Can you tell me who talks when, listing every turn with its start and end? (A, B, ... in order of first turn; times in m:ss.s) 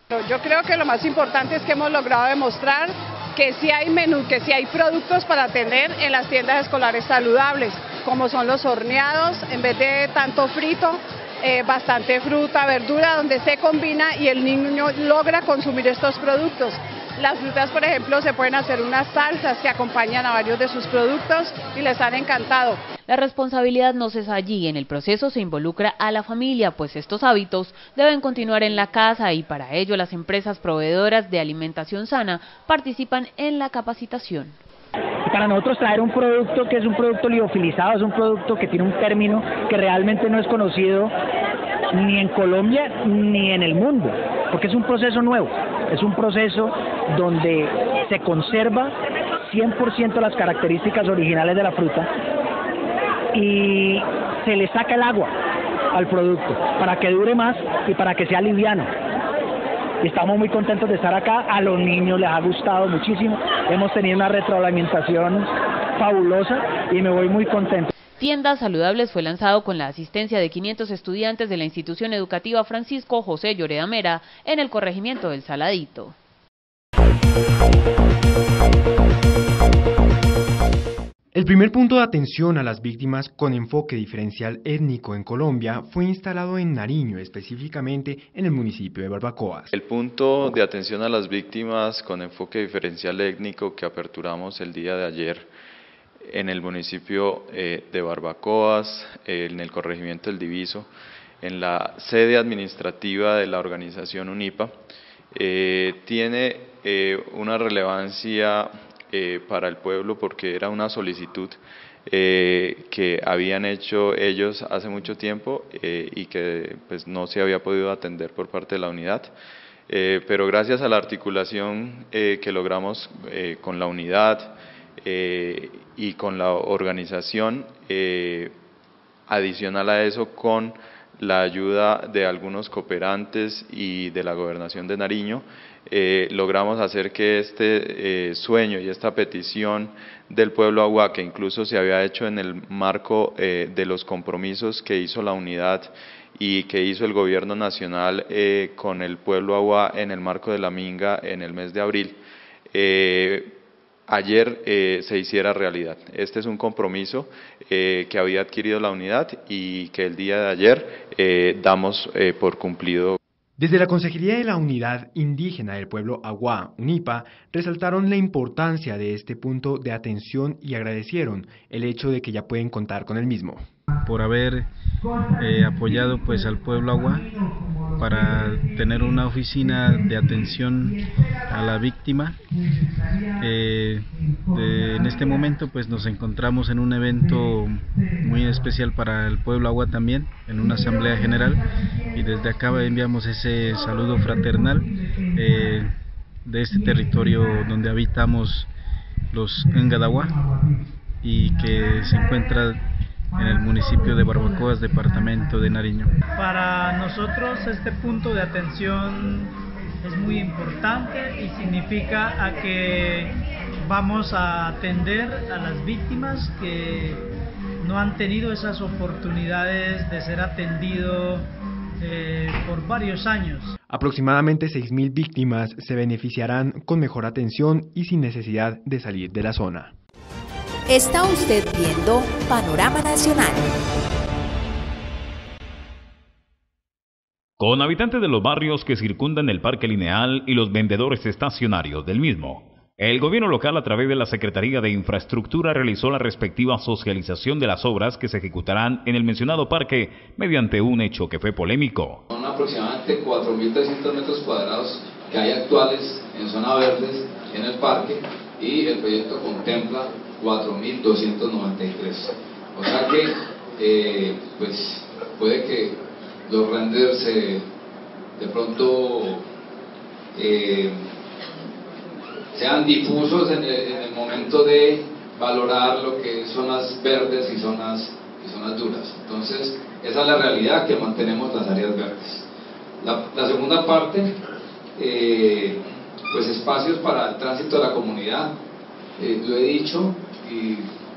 0:00.1-0:22.8 A
0:23.1-0:34.6 B
0:35.3-0:41.1 C
0:42.0-0:48.9 C
0:49.5-0:52.1 C
0:53.4-0:55.3 C
0:56.0-0:58.9 C
1:00.0-1:07.9 C
1:08.2-1:16.2 B
1:21.3-1:29.7 D
1:29.7-1:35.5 E
1:36.2-1:40.9 E
1:41.4-1:44.7 E
1:45.3-1:51.6 E
1:52.1-1:59.3 E
1:59.9-2:08.5 E
2:09.3-2:32.2 E
2:32.7-2:33.6 E
2:34.1-2:43.2 E
2:43.6-2:53.6 D
2:54.0-2:54.7 F
2:55.3-2:57.4 F
2:58.0-3:02.4 F
3:03.4-3:18.7 F
3:19.3-3:20.4 F
3:21.2-3:22.8 F
3:23.4-3:26.2 F
3:26.3-3:37.3 G
3:37.8-3:41.5 G
3:42.0-3:43.7 G
3:43.9-3:49.9 D
3:50.9-3:53.7 H
3:57.6-4:12.2 I
4:12.3-4:26.0 J
4:26.5-4:27.6 J
4:28.4-4:29.4 J
4:30.4-4:31.0 J
4:32.5-4:42.4 J
4:43.0-4:44.3 J
4:45.0-4:45.8 J
4:46.3-4:48.5 J
4:49.2-4:50.9 J